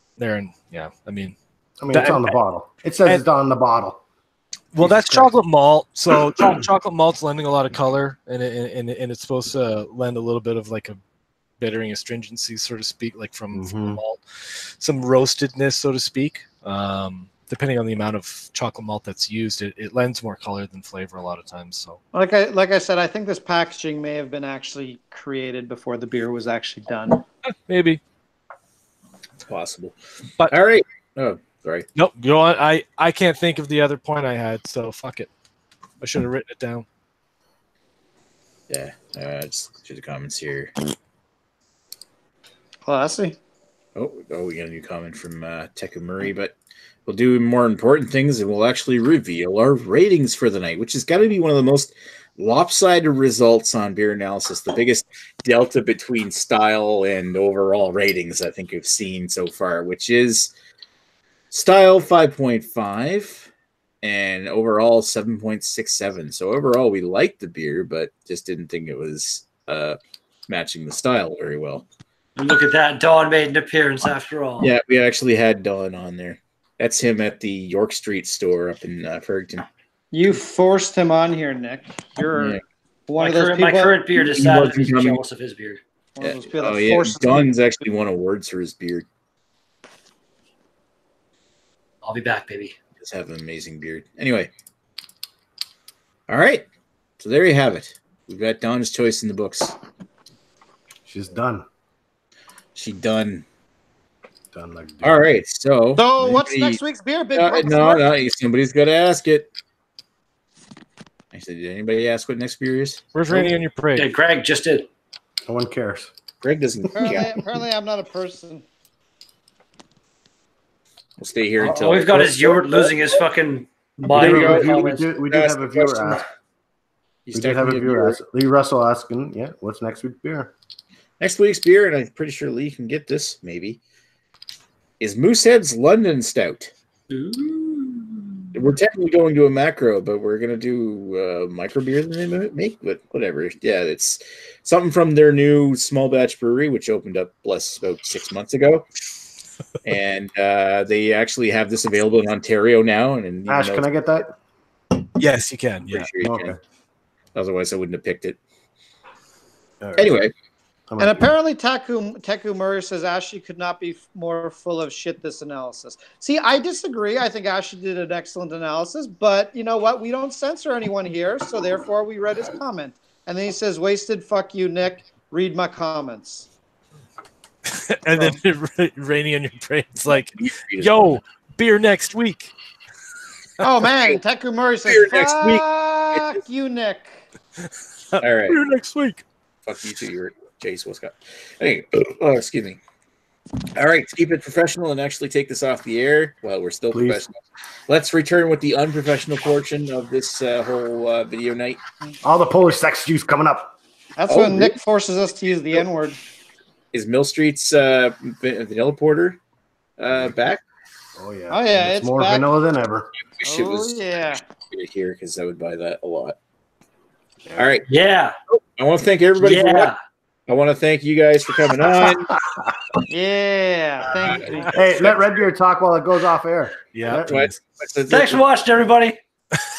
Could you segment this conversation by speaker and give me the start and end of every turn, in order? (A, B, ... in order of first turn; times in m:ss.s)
0:00.2-0:01.4 A
0:01.8-0:04.0 B
0:01.9-0:02.4 A
0:04.7-0:11.0 A
0:04.8-0:05.4 B
0:11.6-0:22.0 A
0:13.5-0:14.0 B
0:22.1-0:27.2 C
0:27.7-0:28.0 A
0:29.5-0:31.9 D
0:32.0-0:35.3 A
0:36.0-0:36.8 A
0:38.7-0:40.7 D
0:42.9-0:43.4 C
0:44.0-0:46.5 D
0:47.1-1:00.5 D
1:01.5-1:03.5 D
1:04.0-1:11.9 D
1:12.4-1:14.7 E
1:14.6-1:19.7 D
1:20.1-1:24.0 C
1:22.3-1:22.6 D
1:23.2-1:25.8 E
1:24.2-1:25.2 D
1:26.2-1:27.6 C
1:26.2-1:29.1 D
1:32.0-1:32.8 E
1:33.0-1:34.5 D
1:36.3-1:36.7 D
1:37.2-1:39.8 D
1:41.1-1:41.7 B
1:42.8-1:43.4 D
1:44.5-1:45.3 B
1:45.0-1:46.8 D
1:46.0-1:48.0 C
1:47.4-1:49.5 D
1:51.3-1:53.5 D
1:53.1-1:54.1 A
1:54.0-1:54.9 E
1:55.5-1:56.1 B
1:56.4-1:57.4 D
1:57.0-1:58.6 C
2:01.2-2:02.9 D
2:01.6-2:05.1 E
2:04.1-2:06.2 D
2:04.1-2:06.2 B
2:07.3-2:08.2 D
2:07.3-2:10.5 B
2:11.2-2:13.8 D
2:15.0-2:16.7 D
2:17.1-2:18.5 E
2:18.5-2:28.8 D
2:29.8-2:34.2 D
2:33.5-2:34.3 B
2:35.2-2:36.1 A
2:35.9-2:36.6 D
2:36.2-2:36.6 B
2:37.4-2:38.4 D
2:39.8-2:40.2 B
2:40.0-2:40.3 D
2:40.9-2:41.3 B
2:41.0-2:56.5 C
2:57.7-3:02.5 A
3:00.1-3:01.1 D
3:03.6-3:07.2 C
3:04.9-3:06.3 D
3:08.1-3:09.2 A
3:08.2-3:08.6 D
3:09.6-3:12.8 D
3:13.8-3:17.4 D
3:16.9-3:17.2 B
3:17.9-3:21.8 D
3:22.2-3:23.8 B
3:24.2-3:26.2 C
3:24.3-3:24.8 D
3:26.9-3:29.4 D
3:30.0-3:30.6 D
3:31.2-3:33.1 B
3:31.5-3:32.4 C
3:33.4-3:36.4 D
3:33.5-3:34.4 C
3:37.6-3:37.9 D
3:37.9-3:38.4 E
3:38.8-3:39.9 D
3:39.4-3:40.0 E
3:40.5-3:42.4 D
3:42.3-3:42.7 B
3:43.1-3:44.8 C
3:44.0-3:45.3 D
3:44.7-3:47.4 B
3:46.9-3:47.6 A
3:47.2-3:48.4 D
3:48.1-3:49.2 E